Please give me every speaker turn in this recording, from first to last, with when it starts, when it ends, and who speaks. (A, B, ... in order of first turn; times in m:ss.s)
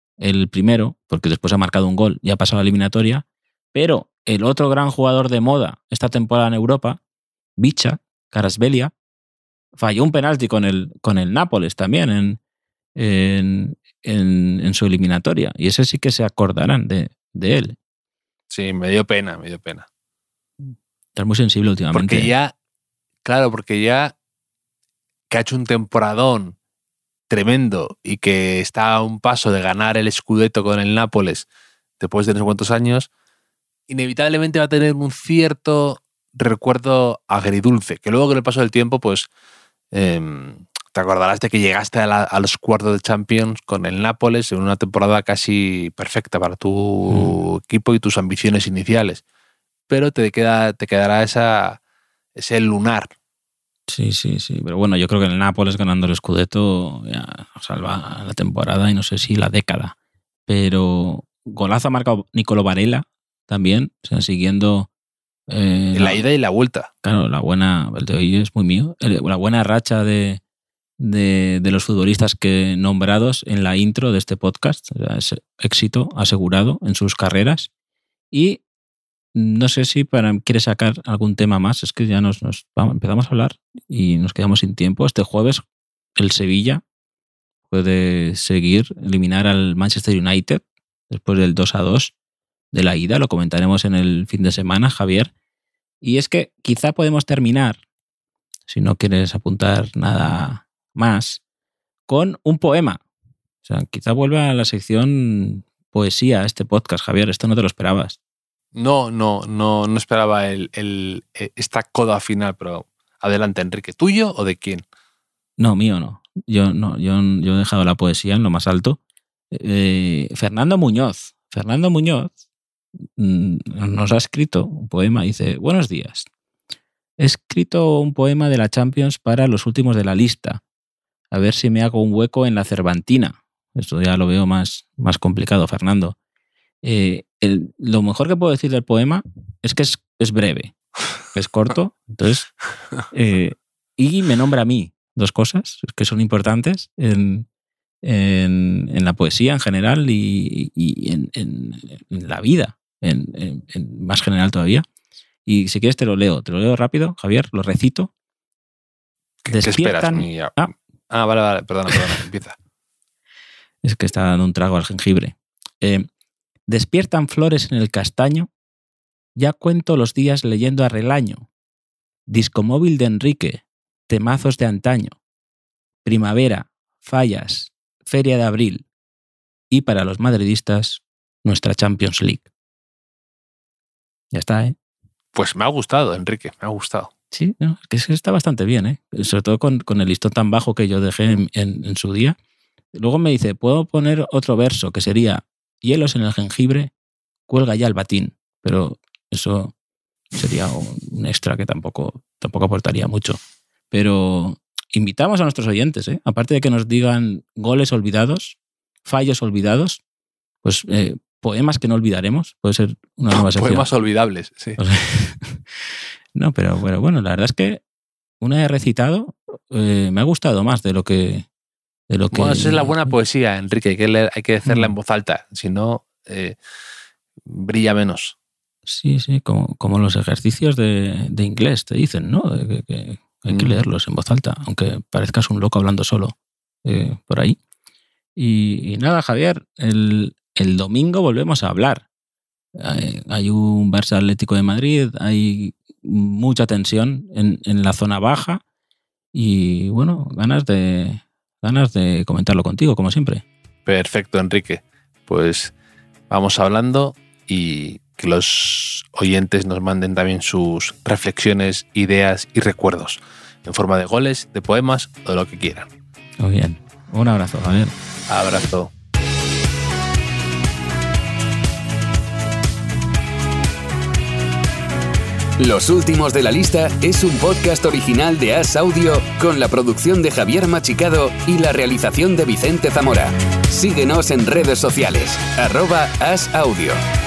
0:00.2-0:07.0 A
0:07.6-0:08.9 A
0:09.8-0:12.4 A
0:13.0-0:17.8 A
0:18.5-0:19.9 B
0:20.6-0:22.3 A
0:21.9-0:22.5 B
0:23.2-0:24.2 B
0:25.3-0:26.6 B
0:27.3-0:31.5 B
0:32.0-0:33.1 B
0:33.9-0:39.3 B
0:39.9-0:49.2 B
0:47.1-0:47.4 A
0:49.9-0:51.8 B
0:52.4-0:53.1 B
0:53.9-1:00.0 A
1:00.5-1:04.9 A
1:05.5-1:06.2 A
1:06.0-1:06.9 B
1:07.0-1:10.4 A
1:11.0-1:17.7 A
1:18.3-1:18.6 A
1:19.4-1:25.6 A
1:26.2-1:26.8 A
1:27.7-1:32.1 A
1:32.7-1:35.3 A
1:36.0-1:37.8 A
1:38.7-1:41.4 A
1:42.1-1:43.0 A
1:43.6-1:48.2 A
1:48.8-1:54.8 B
1:55.6-1:59.0 A
1:59.5-2:02.4 A
2:03.2-2:06.3 A
2:07.2-2:10.6 A
2:11.3-2:16.2 A
2:16.8-2:22.5 A
2:23.1-2:27.5 A
2:28.0-2:34.8 A
2:35.5-2:38.1 A
2:39.4-2:42.6 B
2:39.5-2:40.7 A
2:43.8-2:46.1 A
2:46.7-2:48.5 A
2:49.4-2:51.5 A
2:52.3-2:55.2 A
2:56.0-2:58.8 A
2:59.7-3:02.5 A
3:04.3-3:04.8 A
3:05.4-3:07.1 B
3:07.3-3:12.4 A
3:13.0-3:16.9 A
3:17.5-3:19.7 A
3:20.4-3:23.4 A
3:23.9-3:30.0 A
3:30.6-3:33.9 A
3:33.3-3:34.8 B
3:34.8-3:37.8 A
3:38.4-3:41.5 A
3:42.1-3:43.1 A
3:42.3-3:46.6 B
3:44.6-3:44.9 A
3:47.4-3:48.4 B
3:48.9-3:57.6 A
3:53.5-3:53.8 B
3:58.4-4:02.1 A
4:02.8-4:08.6 A
4:09.3-4:13.4 A
4:13.8-4:15.7 B
4:16.3-4:25.9 B
4:26.4-4:27.9 A
4:28.3-4:28.9 B
4:35.6-4:47.0 C